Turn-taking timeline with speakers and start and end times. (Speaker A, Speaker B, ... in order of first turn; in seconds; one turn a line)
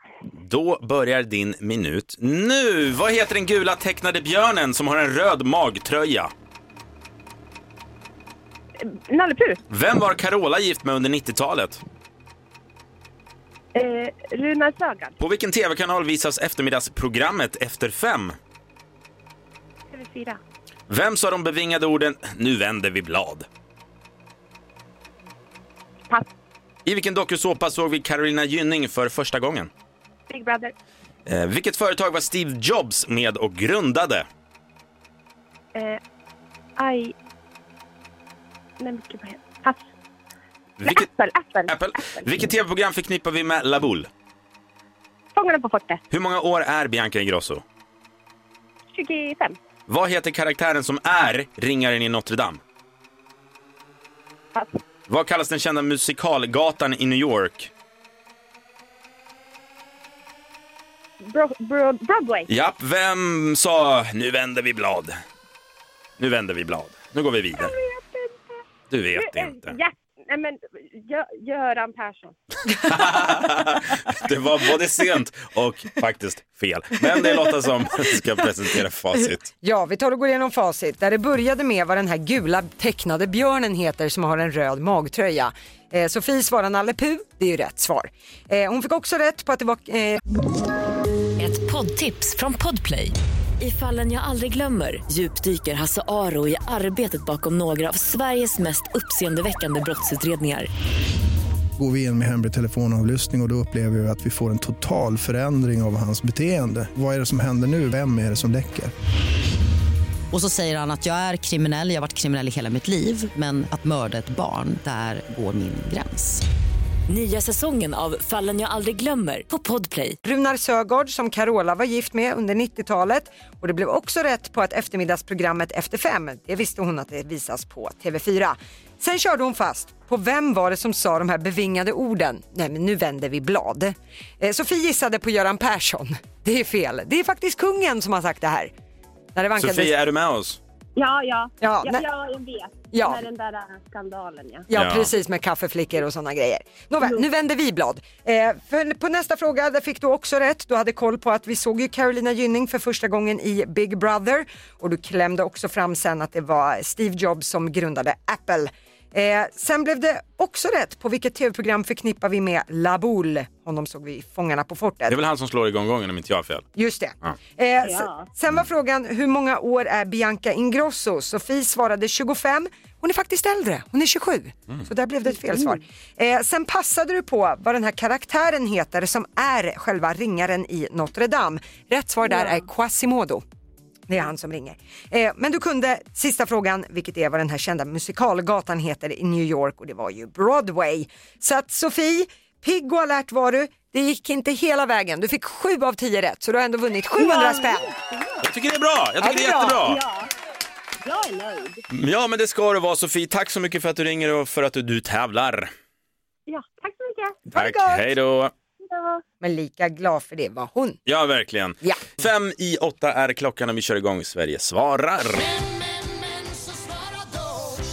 Speaker A: 0.4-6.3
Speaker B: 8.8-9.6
Speaker A: 9.7-11.8
Speaker B: 13.7-15.2
Speaker A: 15.2-18.4
Speaker B: 19.9-20.4
Speaker A: 20.9-23.5
Speaker A: 26.9-29.7
Speaker B: 30.3-30.7
Speaker A: 31.2-34.3
Speaker B: 35.7-36.0
Speaker B: 36.8-37.1
Speaker B: 38.8-39.9
Speaker A: 40.8-41.1
Speaker B: 40.8-42.3
Speaker A: 41.7-44.1
Speaker B: 45.3-46.0
Speaker A: 46.1-47.6
Speaker B: 48.9-49.6
Speaker A: 49.9-52.6
Speaker A: 55.1-57.7
Speaker B: 61.2-62.5
Speaker A: 62.5-65.2
Speaker A: 66.2-67.7
Speaker B: 67.5-68.6
Speaker A: 68.9-69.7
Speaker B: 69.2-72.3
Speaker A: 72.9-79.5
Speaker C: 79.6-90.2
Speaker D: 91.4-100.7
Speaker E: 101.8-108.9
Speaker F: 110.3-116.4
Speaker D: 117.1-120.2
Speaker C: 120.2-138.7
Speaker C: 139.3-139.9
Speaker A: 139.6-140.6
Speaker B: 140.9-144.7
Speaker C: 141.6-142.0
Speaker C: 142.9-143.2
Speaker C: 144.7-165.2
Speaker A: 144.7-145.1
Speaker A: 165.1-166.7
Speaker C: 166.8-183.4
Speaker B: 167.8-168.3
Speaker B: 182.3-182.6
Speaker C: 184.1-197.9
Speaker B: 197.2-198.4
Speaker A: 198.4-200.0
Speaker C: 199.2-199.8
Speaker B: 199.8-200.3
Speaker B: 201.0-201.8
Speaker A: 201.9-205.7
Speaker B: 206.5-207.4
Speaker C: 207.5-208.0
Speaker A: 207.5-208.5
Speaker B: 208.8-209.2
Speaker C: 209.4-211.0
Speaker A: 211.1-215.5